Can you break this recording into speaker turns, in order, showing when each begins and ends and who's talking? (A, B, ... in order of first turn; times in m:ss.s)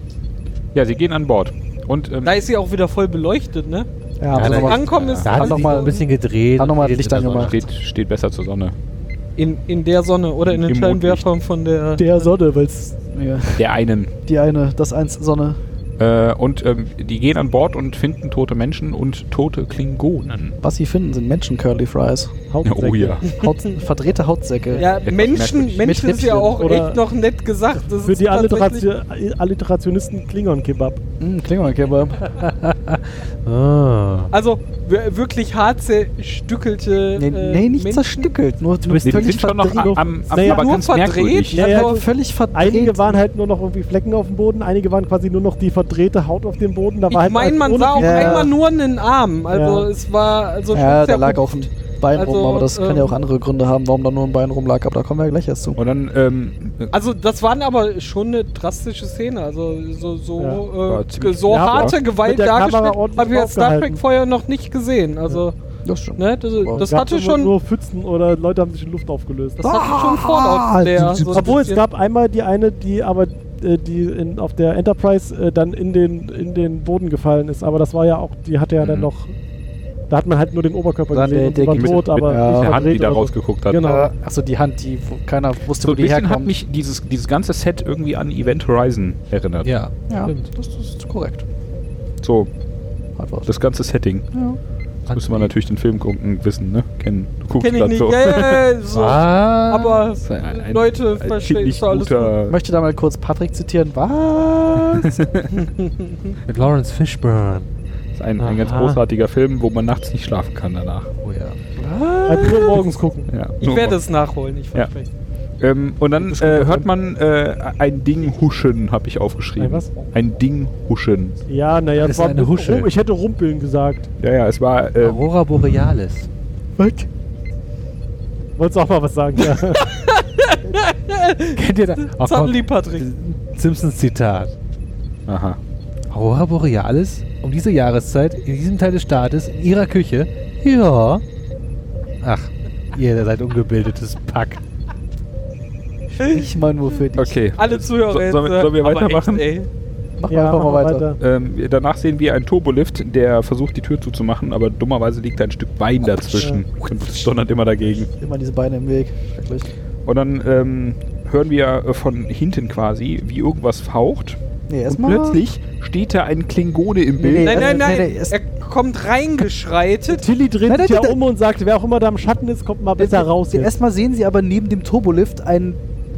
0:00.7-0:02.4 A
0:02.2-0:03.9 B
0:04.2-0:06.0 C
0:04.3-0:07.6 D
0:04.3-0:05.3 A
0:04.4-0:06.0 B
0:06.5-0:07.6 C
0:07.1-0:08.7 A
0:09.4-0:12.3 B
0:10.5-0:11.2 A
0:12.0-0:13.0 E
0:13.1-0:13.7 C
0:13.6-0:14.1 A
0:14.2-0:15.6 C
0:16.0-0:20.6 A
0:20.6-0:22.3 C
0:22.5-0:23.2 E
0:22.6-0:23.2 A
0:23.3-0:24.9 C
0:24.7-0:28.8 B
0:25.0-0:25.9 A
0:25.8-0:26.6 C
0:26.5-0:27.0 E
0:28.0-0:31.0 E
0:31.2-0:32.3 C
0:32.3-0:34.3 D
0:34.3-0:38.3 B
0:37.2-0:40.4 C
0:38.8-0:39.4 D
0:39.0-0:41.6 A
0:40.3-0:40.8 E
0:40.3-0:42.0 B
0:41.5-0:43.2 C
0:41.5-0:48.5 E
0:47.1-0:53.2 B
0:47.9-0:48.5 C
0:49.5-0:49.9 E
0:50.7-0:55.8 C
0:55.8-0:56.9 A
0:56.9-1:05.5 B
1:00.8-1:02.0 A
1:01.5-1:04.0 E
1:05.8-1:06.9 C
1:06.2-1:07.5 B
1:06.8-1:09.6 E
1:09.6-1:11.8 B
1:09.6-1:11.6 C
1:11.3-1:19.3 E
1:18.8-1:19.1 A
1:20.1-1:24.1 E
1:21.1-1:22.8 C
1:21.7-1:23.9 A
1:23.8-1:26.6 C
1:25.8-1:29.7 A
1:29.6-1:30.5 D
1:30.1-1:31.4 C
1:32.2-1:32.5 A
1:33.2-1:33.6 C
1:33.4-1:34.3 A
1:34.3-1:34.6 C
1:35.1-1:35.5 D
1:35.1-1:38.4 A
1:37.6-1:42.3 B
1:38.9-1:40.0 D
1:40.2-1:42.6 A
1:42.5-1:45.2 C
1:44.9-1:45.5 A
1:45.6-1:46.1 B
1:46.5-1:47.7 D
1:48.2-1:51.1 A
1:48.4-1:49.0 E
1:51.2-1:51.6 D
1:51.8-1:52.9 B
1:52.2-1:53.3 E
1:53.3-1:54.0 A
1:53.6-1:55.1 B
1:55.6-2:01.4 A
1:56.2-1:56.8 C
1:59.6-1:59.9 E
2:01.5-2:04.1 E
2:02.0-2:02.9 D
2:04.2-2:05.3 A
2:05.0-2:06.3 D
2:06.8-2:07.1 C
2:08.6-2:09.9 E
2:09.7-2:13.1 B
2:11.6-2:14.5 D
2:15.3-2:15.6 A
2:16.1-2:21.2 D
2:22.2-2:24.6 D
2:26.2-2:27.4 C
2:27.2-2:29.5 A
2:27.6-2:29.7 B
2:30.2-2:31.1 C
2:30.3-2:31.2 E
2:31.2-2:38.1 A
2:38.2-2:39.7 C
2:40.0-2:47.7 A
2:44.7-2:45.4 C
2:47.2-2:48.4 C
2:47.4-2:50.3 B
2:50.1-2:53.7 E
2:50.6-2:51.2 C
2:53.0-2:55.8 C